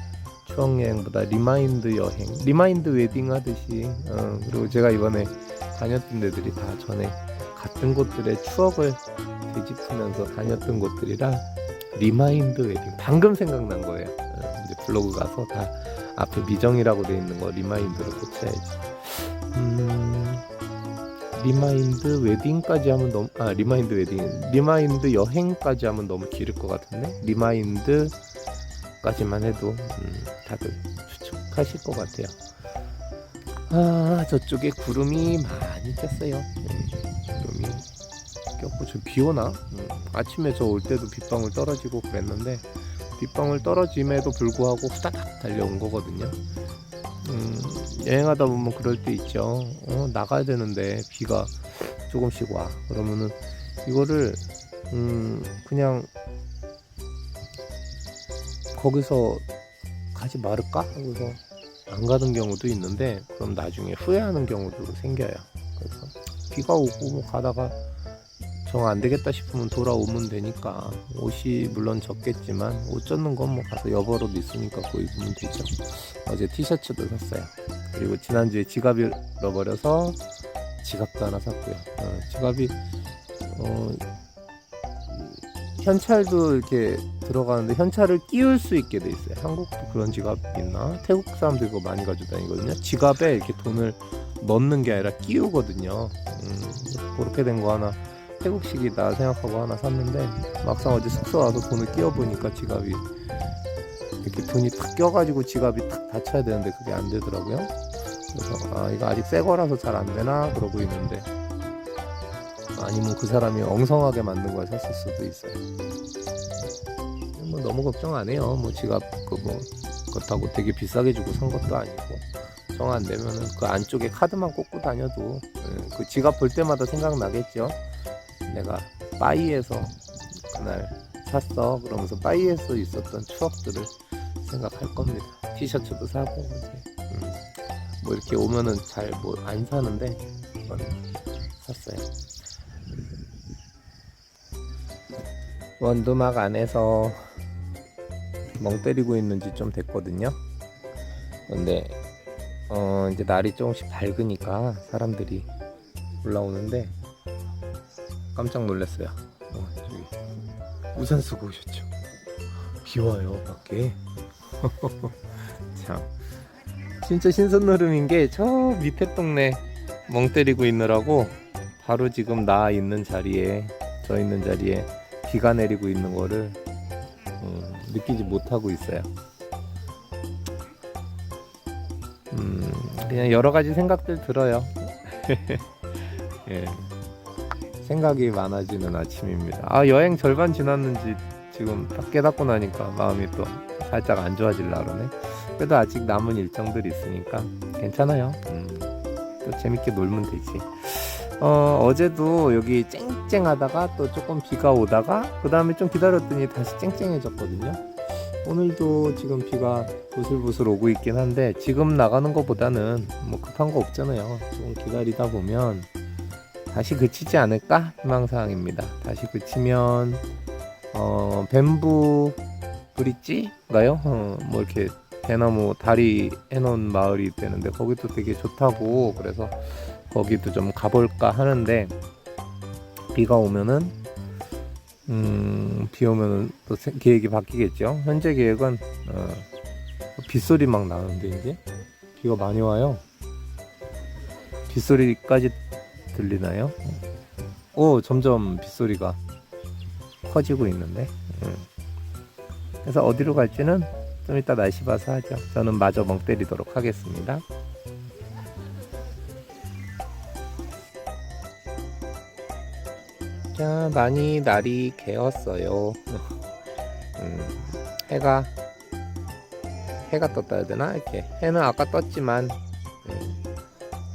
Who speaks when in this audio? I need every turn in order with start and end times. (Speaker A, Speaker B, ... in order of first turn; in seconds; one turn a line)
Speaker A: 0.4-20.4
Speaker A: 21.4-28.2
Speaker A: 29.0-32.4
Speaker A: 33.7-37.9
Speaker A: 38.6-46.4
Speaker A: 47.2-56.1
Speaker A: 58.7-59.4
Speaker A: 60.1-67.8
Speaker A: 68.7-80.2
Speaker A: 80.8-82.8
Speaker A: 83.4-84.0
Speaker A: 85.1-103.1
Speaker A: 104.2-107.7
Speaker A: 108.3-111.3
Speaker A: 112.8-115.6
Speaker A: 117.4-127.8
Speaker A: 128.5-137.5
Speaker A: 138.0-141.0
Speaker A: 141.6-142.1
Speaker A: 145.8-147.3
Speaker A: 148.6-150.4
Speaker A: 151.5-152.0
Speaker A: 152.7-155.5
Speaker A: 156.2-156.9
Speaker A: 158.3-160.1
Speaker A: 160.9-161.9
Speaker A: 162.8-164.0
Speaker A: 164.6-166.1
Speaker A: 167.0-176.6
Speaker A: 177.4-179.1
Speaker A: 182.3-186.9
Speaker A: 187.8-215.9
Speaker A: 216.7-220.2
Speaker A: 220.9-222.4
Speaker A: 222.9-231.9
Speaker A: 233.1-234.0
Speaker A: 235.1-239.5
Speaker A: 240.2-241.6
Speaker A: 242.2-243.0
Speaker A: 244.7-245.6
Speaker A: 246.1-247.0
Speaker A: 247.8-249.2
Speaker A: 250.2-251.7
Speaker A: 252.8-257.4
Speaker A: 263.5-266.3
Speaker A: 267.2-268.5
Speaker A: 270.1-273.4